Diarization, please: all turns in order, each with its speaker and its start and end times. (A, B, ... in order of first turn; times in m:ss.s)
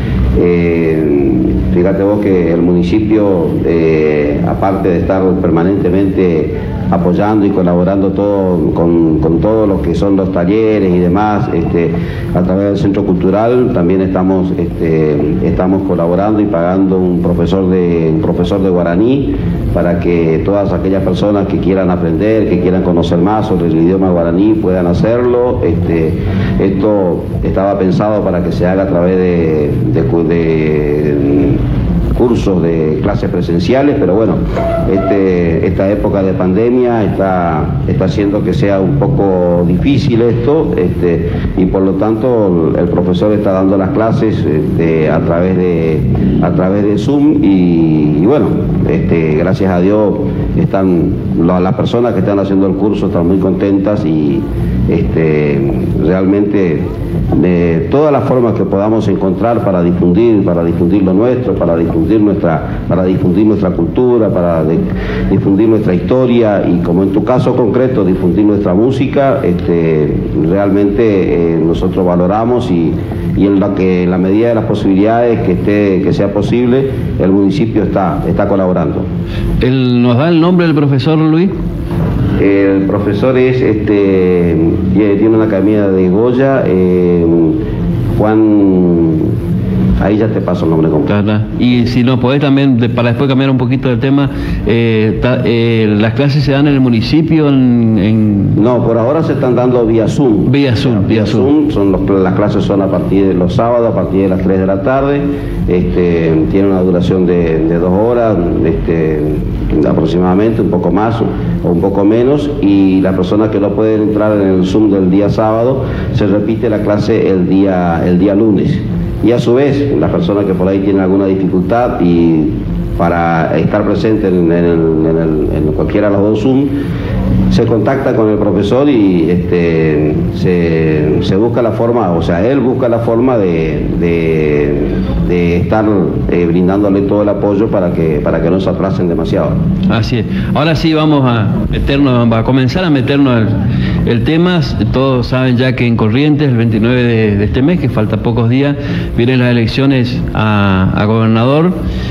0:00.4-0:31.6 A
0:32.2-1:19.1 A
1:19.6-1:21.5 B
1:22.4-1:27.6 A
1:28.2-1:29.3 A
1:30.0-1:31.1 A
1:31.1-1:38.6 B
1:38.6-2:06.8 A
1:40.5-1:41.5 B
2:07.5-2:19.6 A
2:19.9-2:31.8 B